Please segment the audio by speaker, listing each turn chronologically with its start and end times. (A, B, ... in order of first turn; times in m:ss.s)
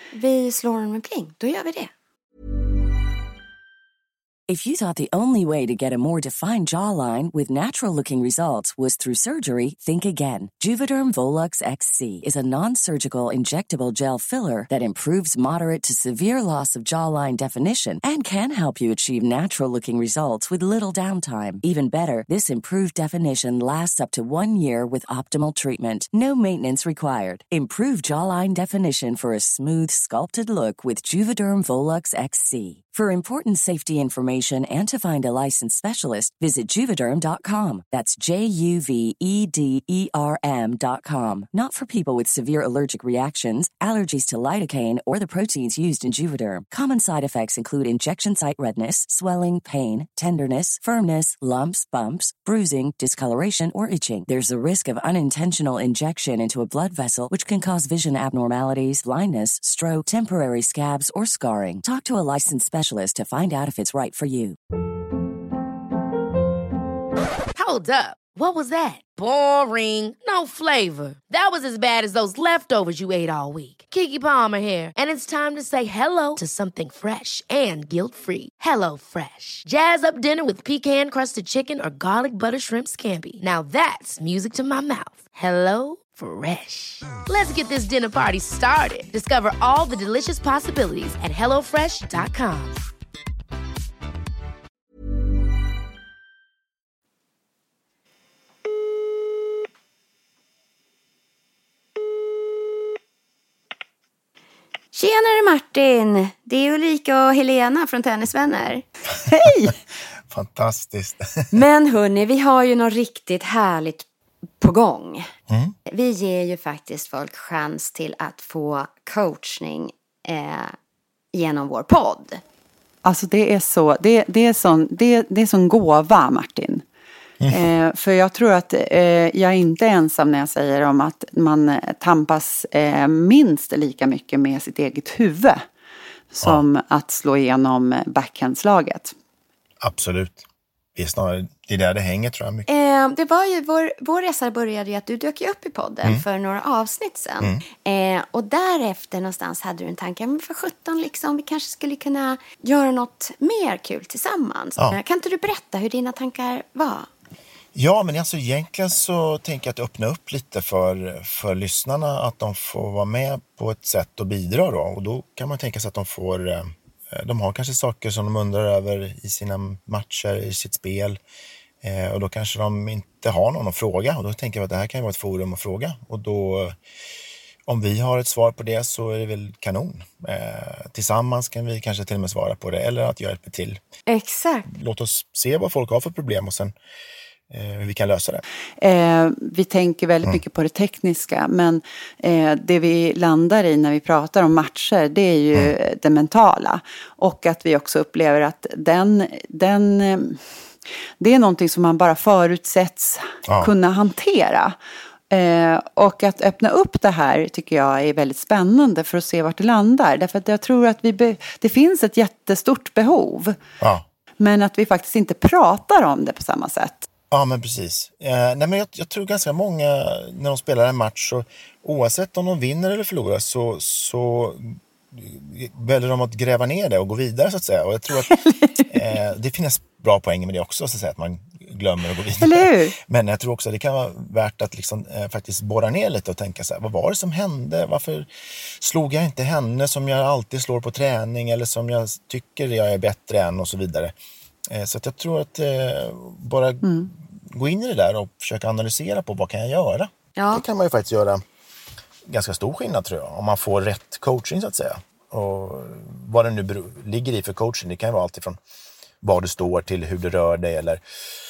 0:00.1-0:01.9 A
0:04.5-1:04.6 B
1:07.5-1:32.8 C
1:44.9-1:48.8 A
1:49.3-1:49.8 D
1:49.4-1:49.7 E
1:50.3-1:51.4 E
1:51.5-1:54.1 A
1:54.6-1:55.3 A
1:55.5-1:55.7 E
1:55.9-2:00.7 A
2:01.3-2:02.4 A
2:03.0-2:06.8 D
2:07.5-2:15.6 D
2:16.3-2:19.1 D
2:19.8-2:20.4 E
2:21.0-2:22.6 E
2:22.7-2:37.1 A
2:37.7-2:51.2 E
2:51.8-2:56.8 E
2:57.6-3:03.8 E
3:04.1-3:04.7 A
3:04.7-3:06.7 E
3:07.5-3:08.4 E
3:08.8-3:20.4 D
3:21.2-3:24.7 D
3:25.3-3:33.6 D
3:34.4-3:37.1 D
3:37.3-3:48.3 E
3:48.3-3:48.9 D
3:48.9-4:04.1 E
3:52.4-3:53.0 D
4:04.7-4:06.9 E
4:06.8-4:07.1 D
4:07.5-4:11.4 E
4:10.4-4:10.6 A
4:12.2-4:18.6 E
4:19.2-4:21.0 E